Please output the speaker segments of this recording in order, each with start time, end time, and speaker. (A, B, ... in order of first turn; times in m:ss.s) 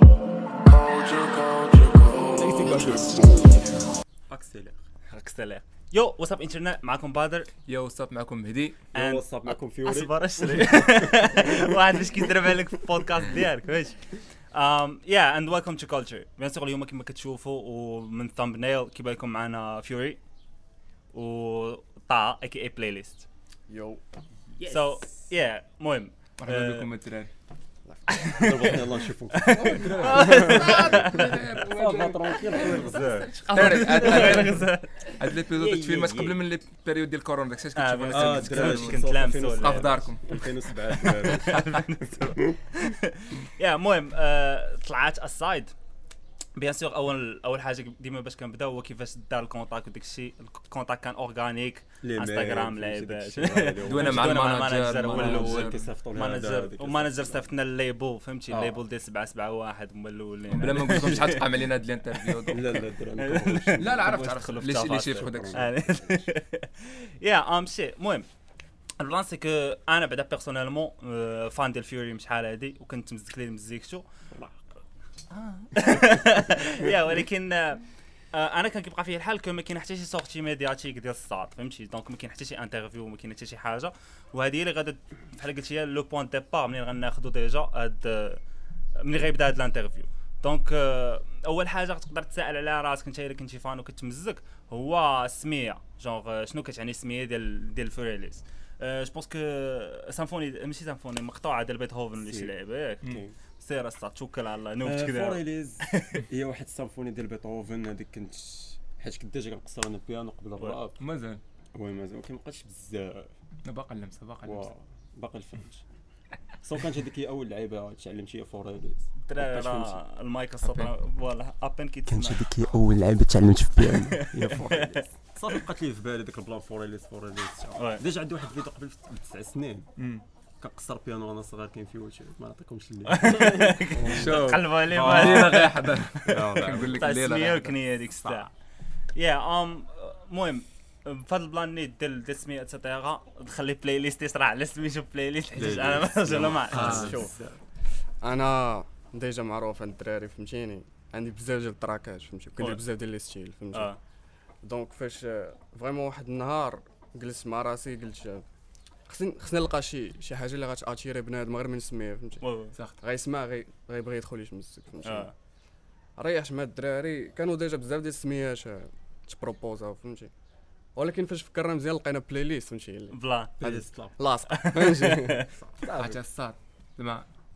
0:00.6-0:03.8 A
0:02.6-0:02.8 B
0:04.3-0:04.8 B
0:05.1-0:07.5 C
0:07.7-0:08.8 D
0:08.9-0:11.6 B
0:08.9-0:20.2 C
0:21.1-0:23.3 C
0:23.7-0:24.0 E
0:24.6-0:25.1 B
0:24.6-0:26.9 C
0:26.4-0:27.3 D
0:27.9-0:28.1 E
0:28.1-0:31.4 C
0:28.3-0:34.7 B
0:29.7-0:40.8 D
0:32.5-0:35.1 C
0:35.5-0:36.4 B
0:37.8-0:40.2 C
0:38.1-0:42.6 B
0:41.0-0:45.8 C
0:46.6-1:01.6 C
0:52.0-0:57.5 B
0:53.8-0:55.9 D
0:58.5-0:58.8 B
1:00.5-1:02.6 D
1:02.2-1:08.3 C
1:02.5-1:05.8 B
1:03.8-1:05.8 D
1:09.0-1:14.1 C
1:14.3-1:14.6 B
1:15.3-1:28.4 C
1:29.0-1:43.1 C
1:42.2-1:43.4 B
1:43.6-1:46.2 C
1:44.8-1:51.0 B
1:51.0-1:51.4 D
1:51.8-1:53.3 B
1:53.6-1:54.7 D
1:54.4-1:55.8 B
1:56.6-2:00.0 B
1:59.2-2:02.5 C
2:00.6-2:00.9 D
2:02.1-2:10.0 B
2:04.3-2:05.1 C
2:07.8-2:08.0 C
2:10.0-2:10.2 D
2:10.6-2:17.1 B
2:13.1-2:18.5 C
2:14.1-2:17.8 D
2:18.2-2:18.5 B
2:19.1-2:27.0 C
2:25.5-2:27.6 B
2:26.7-2:27.2 D
2:26.8-2:27.4 E
2:28.2-2:34.0 E
2:33.7-2:34.0 C
2:34.6-2:38.4 E
2:39.1-2:42.5 E
2:42.4-2:42.8 C
2:43.0-2:45.3 E
2:45.0-2:45.3 C
2:46.2-2:50.3 E
2:51.0-2:56.2 E
2:53.1-2:55.4 C
2:53.6-2:54.2 B
2:55.9-2:57.3 D